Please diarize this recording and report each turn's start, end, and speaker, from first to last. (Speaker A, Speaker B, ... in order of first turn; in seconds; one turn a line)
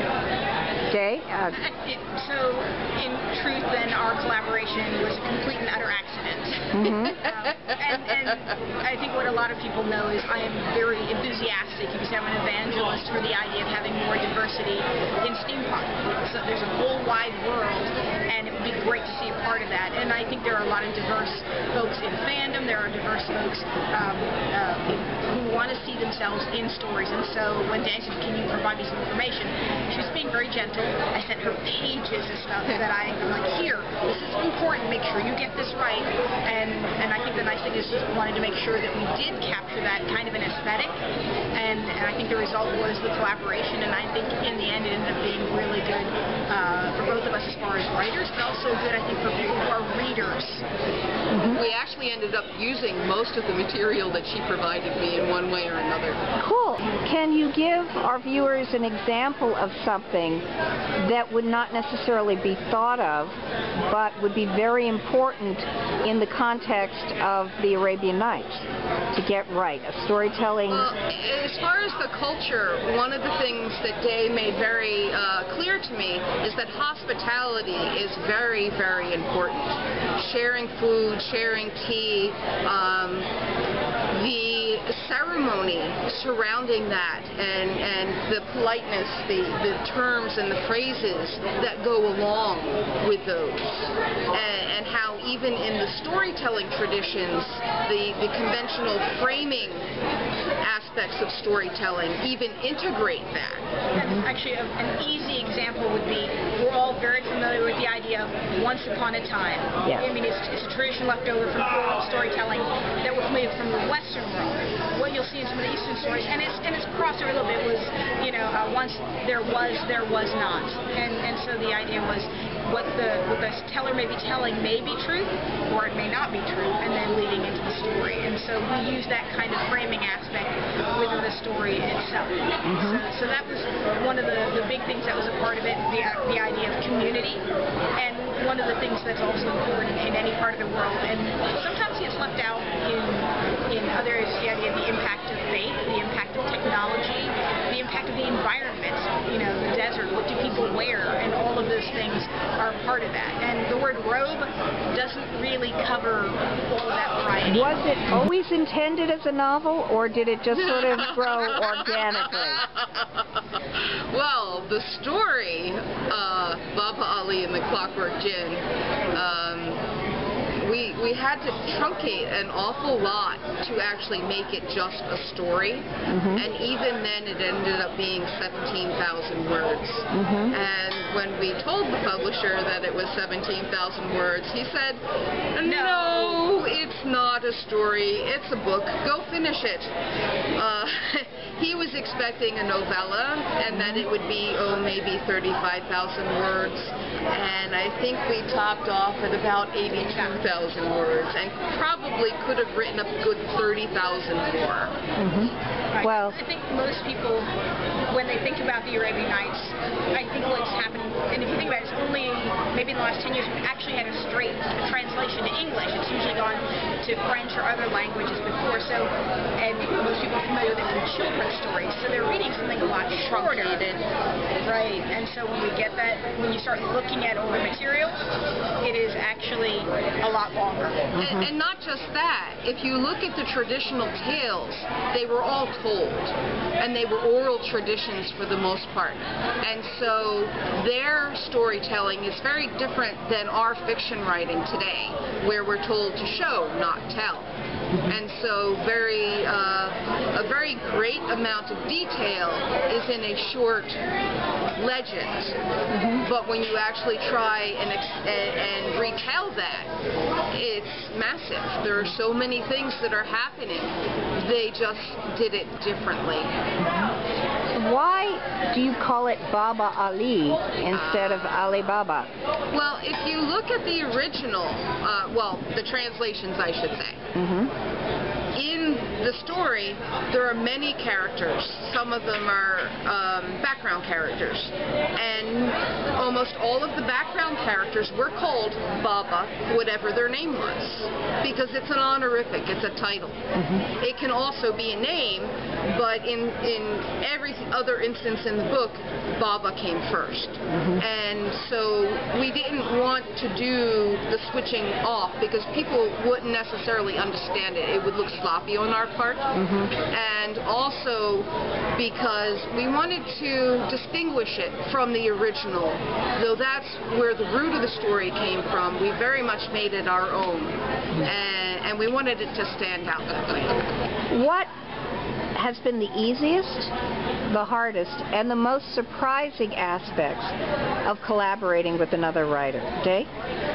Speaker A: 0.9-1.6
Speaker B: 1.5-40.9
Speaker A: 6.7-7.2
Speaker C: 7.0-7.5
Speaker B: 41.5-50.6
Speaker A: 51.3-51.6
Speaker C: 51.5-56.2
Speaker A: 56.4-60.5
Speaker A: 61.0-63.4
Speaker A: 63.9-70.9
Speaker C: 70.7-83.3
Speaker C: 84.1-99.9
Speaker C: 100.6-103.7
Speaker B: 103.9-137.4
Speaker A: 104.0-104.2
Speaker A: 109.8-110.1
Speaker A: 132.6-133.0
Speaker B: 137.9-157.8
Speaker A: 157.4-162.6
Speaker C: 160.5-169.8
Speaker C: 170.6-185.0
Speaker A: 176.1-176.4
Speaker A: 180.1-180.5
Speaker C: 185.5-189.9
Speaker B: 185.6-186.4
Speaker C: 190.6-204.9
Speaker A: 193.7-194.1
Speaker B: 200.0-200.4
Speaker A: 205.2-206.4
Speaker B: 205.9-207.5
Speaker B: 208.1-224.0
Speaker C: 223.1-224.0
Speaker B: 224.6-228.2
Speaker B: 228.8-231.1
Speaker A: 231.1-231.5
Speaker C: 231.2-247.5
Speaker C: 248.0-254.0
Speaker C: 254.8-255.5
Speaker A: 255.9-256.2
Speaker C: 256.2-259.9
Speaker C: 260.5-266.5
Speaker A: 266.9-267.1
Speaker A: 267.7-272.3
Speaker C: 270.9-271.6
Speaker C: 272.7-277.2
Speaker A: 277.3-277.7
Speaker C: 278.5-323.8
Speaker A: 293.5-293.9
Speaker A: 300.7-301.0
Speaker A: 309.5-309.9
Speaker A: 324.3-324.7
Speaker A: 325.5-326.9
Speaker A: 327.5-330.5
Speaker A: 331.0-333.3